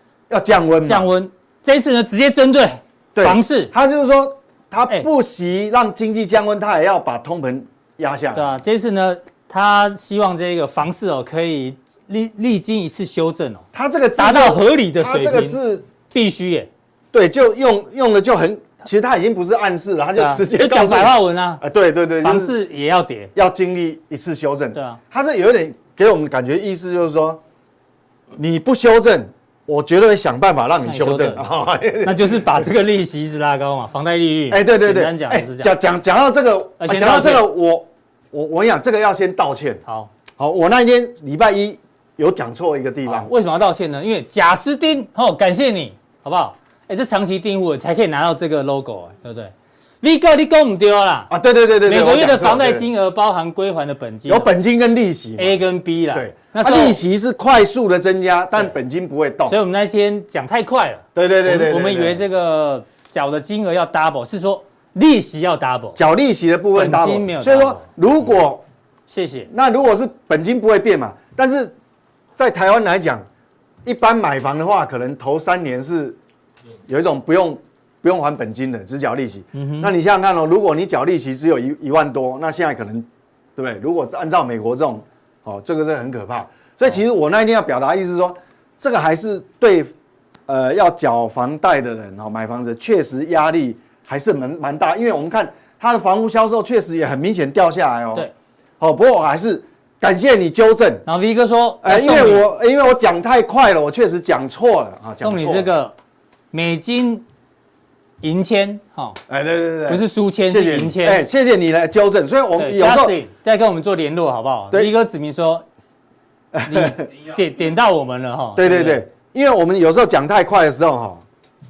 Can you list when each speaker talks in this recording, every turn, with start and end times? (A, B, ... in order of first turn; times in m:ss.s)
0:00.3-0:01.1 A
0:00.8-0:03.7 B
0:03.1-0:08.5 A
0:08.3-0:13.6 B
0:13.7-0:15.8 A
0:14.2-0:15.6 B
0:16.1-0:16.7 B
0:17.1-0:22.6 A
0:20.2-0:21.6 B
0:22.2-0:23.3 B
0:23.3-0:27.4 A
0:24.7-0:25.0 B
0:28.4-0:32.6 A
0:30.8-0:31.4 B
0:32.0-0:35.7 B
0:34.5-0:39.8 A
0:36.8-0:37.5 B
0:40.4-0:43.3 A
0:43.0-0:51.3 B
0:51.3-0:52.9 A
0:51.8-0:54.5 B
0:54.3-0:55.6 A
0:55.4-0:57.0 B
0:56.1-0:59.6 A
0:59.5-1:06.0 B
1:01.1-1:02.2 A
1:06.0-1:08.6 A
1:06.7-1:07.8 B
1:09.1-1:09.5 B
1:09.5-1:11.7 A
1:12.4-1:13.2 A
1:13.8-1:16.2 A
1:16.9-1:29.9 A
1:19.5-1:19.9 B
1:30.5-1:38.3 A
1:38.8-1:41.0 A
1:41.0-1:42.5 B
1:41.8-1:45.7 A
1:45.2-1:45.9 B
1:46.5-1:47.2 B
1:48.2-1:49.2 B
1:49.3-1:53.2 A
1:49.9-1:51.2 B
1:52.6-1:55.6 B
1:56.5-1:57.1 A
1:56.7-1:59.0 B
1:58.6-2:01.2 A